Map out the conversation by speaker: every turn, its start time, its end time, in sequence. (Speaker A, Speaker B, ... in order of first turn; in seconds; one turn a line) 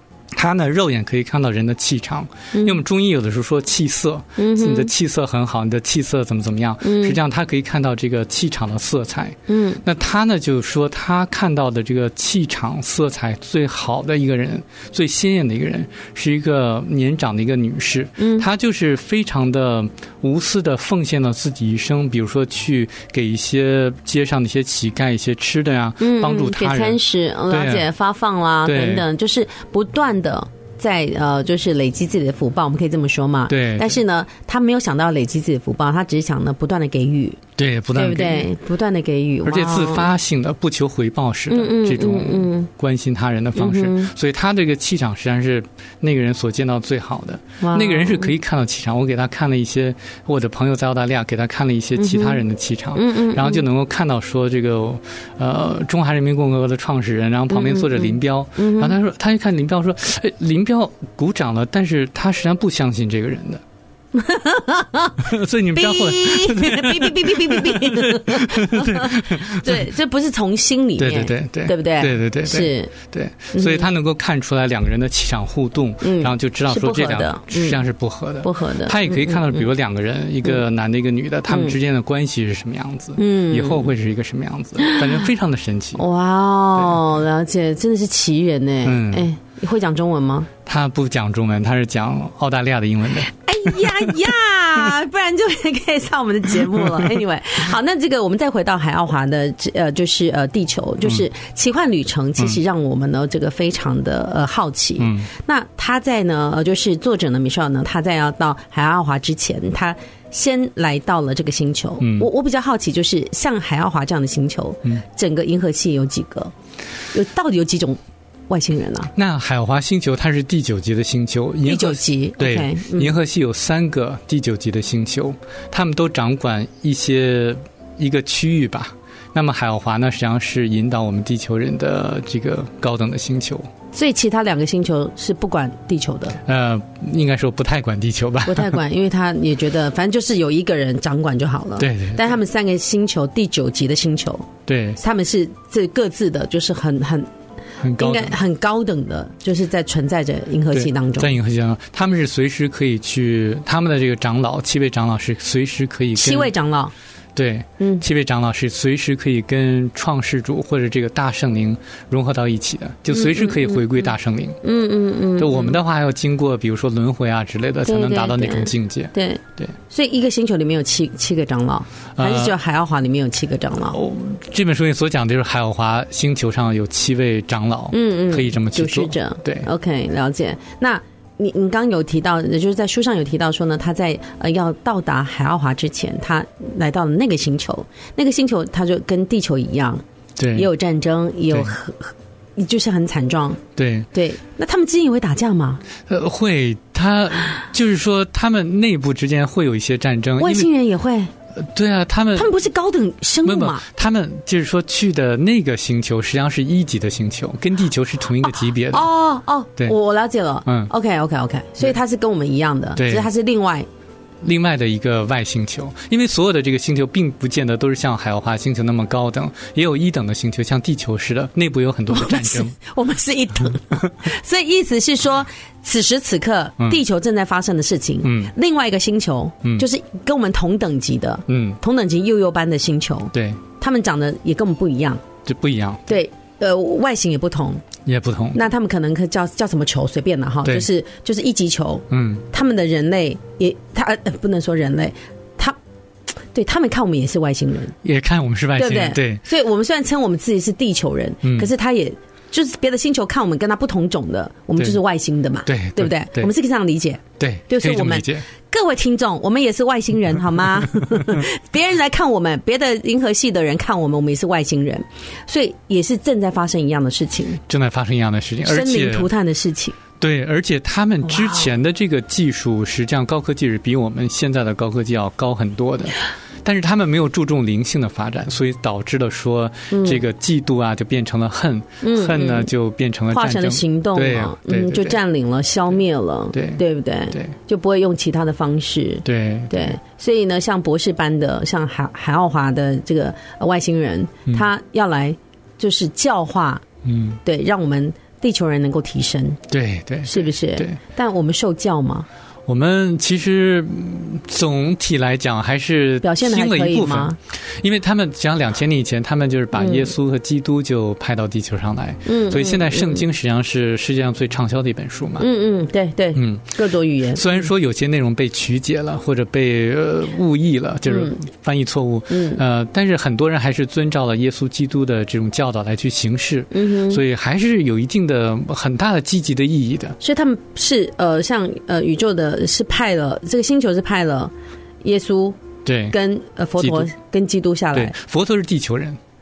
Speaker A: 0.3-27.9
Speaker B: 2.5-2.8
Speaker B: 4.4-4.9
Speaker B: 6.8-7.2
Speaker B: 9.5-9.8
Speaker B: 18.2-18.5
Speaker B: 26.0-37.4
Speaker A: 28.6-29.1
Speaker A: 33.5-34.0
Speaker A: 37.6-38.5
Speaker B: 37.9-40.1
Speaker A: 39.4-63.6
Speaker B: 41.5-42.7
Speaker B: 43.5-44.1
Speaker B: 47.6-48.3
Speaker B: 52.0-53.6
Speaker B: 57.5-59.0
Speaker B: 64.1-72.9
Speaker A: 65.2-69.9
Speaker A: 71.0-86.0
Speaker B: 73.5-73.9
Speaker B: 76.0-77.8
Speaker B: 78.4-79.7
Speaker B: 81.5-81.8
Speaker B: 83.2-83.9
Speaker B: 84.8-85.0
Speaker B: 86.0-90.5
Speaker A: 88.8-89.3
Speaker A: 90.7-94.1
Speaker B: 93.3-116.5
Speaker A: 105.0-105.3
Speaker A: 112.0-112.3
Speaker B: 117.1-119.1
Speaker A: 119.1-133.7
Speaker B: 121.6-123.1
Speaker B: 133.9-136.4
Speaker A: 136.4-138.8
Speaker B: 138.5-144.5
Speaker A: 141.8-142.3
Speaker A: 144.7-145.0
Speaker B: 145.0-147.3
Speaker A: 147.8-148.4
Speaker B: 148.0-151.3
Speaker A: 150.7-156.5
Speaker B: 156.1-156.9
Speaker A: 157.3-164.6
Speaker B: 157.8-158.1
Speaker B: 163.1-164.0
Speaker B: 164.6-165.8
Speaker A: 165.4-169.7
Speaker B: 167.8-174.0
Speaker A: 172.2-172.6
Speaker A: 173.8-179.7
Speaker B: 177.9-190.0
Speaker A: 190.4-190.7
Speaker B: 190.5-193.6
Speaker A: 193.8-194.1
Speaker B: 194.1-195.8
Speaker A: 196.1-200.7
Speaker B: 200.4-201.3
Speaker A: 201.6-202.5
Speaker B: 202.3-203.8
Speaker A: 203.4-209.1
Speaker B: 208.9-213.9
Speaker A: 210.7-210.9
Speaker A: 212.9-213.3
Speaker A: 214.4-222.8
Speaker B: 222.1-235.2
Speaker A: 228.2-228.5
Speaker A: 231.5-231.8
Speaker A: 233.3-233.6
Speaker A: 235.4-236.1
Speaker B: 236.1-237.8
Speaker A: 238.1-238.7
Speaker B: 238.5-245.8
Speaker A: 242.1-242.4
Speaker B: 246.5-247.9
Speaker A: 248.0-249.4
Speaker B: 248.7-267.6
Speaker A: 251.4-251.7
Speaker A: 255.7-256.5
Speaker A: 257.4-258.4
Speaker A: 267.7-269.3
Speaker B: 268.6-270.0
Speaker A: 270.2-285.2
Speaker B: 271.3-271.7
Speaker B: 279.9-280.2
Speaker B: 282.0-282.7
Speaker B: 283.3-296.8
Speaker A: 286.5-286.8
Speaker A: 289.2-290.0
Speaker A: 297.0-297.4
Speaker B: 297.4-299.6
Speaker A: 299.7-301.0
Speaker B: 300.2-302.3
Speaker A: 302.7-315.5
Speaker B: 306.2-307.4
Speaker B: 309.7-310.1
Speaker B: 312.2-313.2
Speaker B: 315.4-317.6
Speaker A: 316.4-330.2
Speaker B: 321.1-321.4
Speaker B: 322.3-322.6
Speaker B: 326.7-327.2
Speaker B: 330.2-334.5
Speaker B: 335.0-338.1
Speaker A: 335.8-336.2
Speaker A: 336.8-337.1
Speaker A: 337.9-339.2